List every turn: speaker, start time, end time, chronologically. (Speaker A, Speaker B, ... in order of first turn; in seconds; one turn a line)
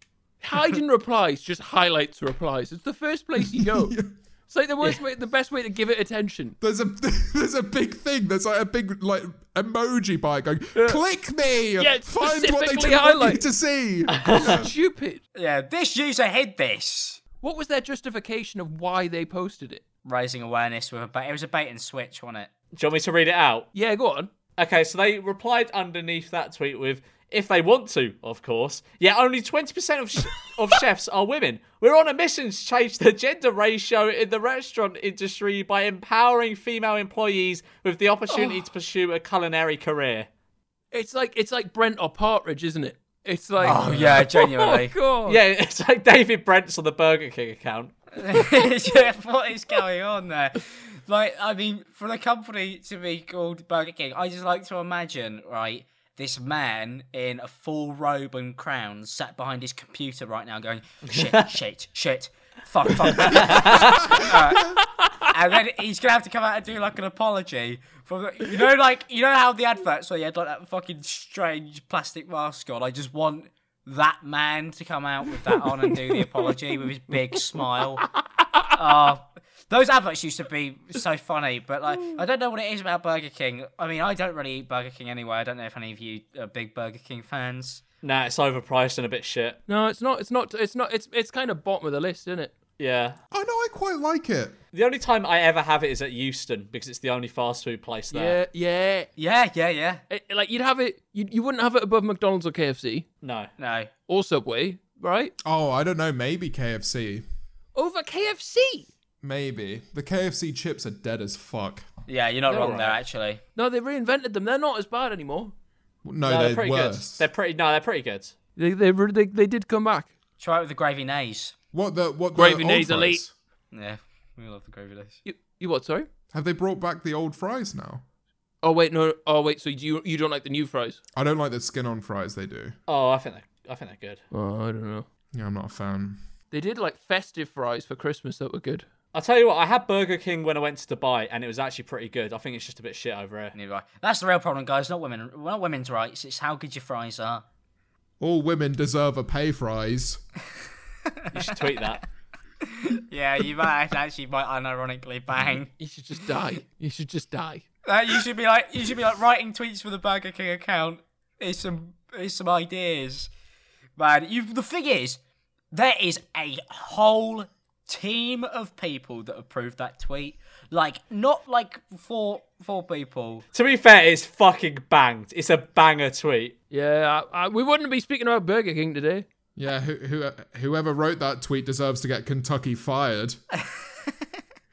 Speaker A: 0.4-4.0
Speaker B: 3.4-4.1
Speaker A: 4.5-6.6
Speaker B: 6.6-14.7
Speaker A: 10.8-11.0
Speaker A: 11.8-13.4
Speaker C: 14.1-14.6
Speaker A: 14.4-15.2
Speaker D: 15.3-17.2
Speaker A: 17.4-19.8
Speaker D: 20.1-22.5
Speaker C: 22.7-23.7
Speaker A: 23.7-24.3
Speaker C: 24.6-40.3
Speaker A: 38.3-38.6
Speaker A: 40.9-45.4
Speaker D: 43.6-44.9
Speaker B: 43.6-44.2
Speaker C: 45.2-48.1
Speaker D: 48.2-64.7
Speaker C: 61.1-61.5
Speaker C: 63.2-64.0
Speaker B: 63.3-64.8
Speaker A: 64.7-65.3
Speaker D: 65.2-78.1
Speaker A: 75.5-76.5
Speaker A: 78.0-78.7
Speaker D: 78.7-87.8
Speaker C: 88.0-89.6
Speaker A: 89.7-92.6
Speaker C: 92.8-93.2
Speaker B: 93.3-94.6
Speaker C: 94.7-98.4
Speaker A: 98.1-99.1
Speaker D: 99.2-100.0
Speaker A: 100.1-103.1
Speaker C: 103.2-103.5
Speaker D: 103.6-103.9
Speaker A: 104.1-105.3
Speaker B: 105.4-107.2
Speaker A: 107.8-108.9
Speaker B: 109.2-111.9
Speaker D: 112.1-113.4
Speaker C: 112.5-113.0
Speaker A: 113.5-115.5
Speaker B: 116.0-117.3
Speaker C: 116.2-118.3
Speaker A: 118.6-120.1
Speaker D: 120.4-121.5
Speaker B: 121.7-123.3
Speaker A: 122.3-123.2
Speaker D: 123.7-125.2
Speaker A: 125.2-126.1
Speaker B: 126.3-128.0
Speaker A: 128.6-131.0
Speaker B: 131.2-132.8
Speaker C: 132.9-134.2
Speaker A: 134.3-135.1
Speaker B: 135.3-136.2
Speaker A: 136.5-138.9
Speaker C: 139.1-143.6
Speaker D: 143.6-147.4
Speaker B: 148.2-150.2
Speaker C: 151.3-152.0
Speaker D: 152.7-155.7
Speaker A: 155.8-157.7
Speaker D: 157.9-163.3
Speaker D: 164.0-165.2
Speaker D: 165.7-173.4
Speaker C: 173.5-176.6
Speaker A: 176.7-179.3
Speaker B: 179.6-183.4
Speaker D: 183.6-184.1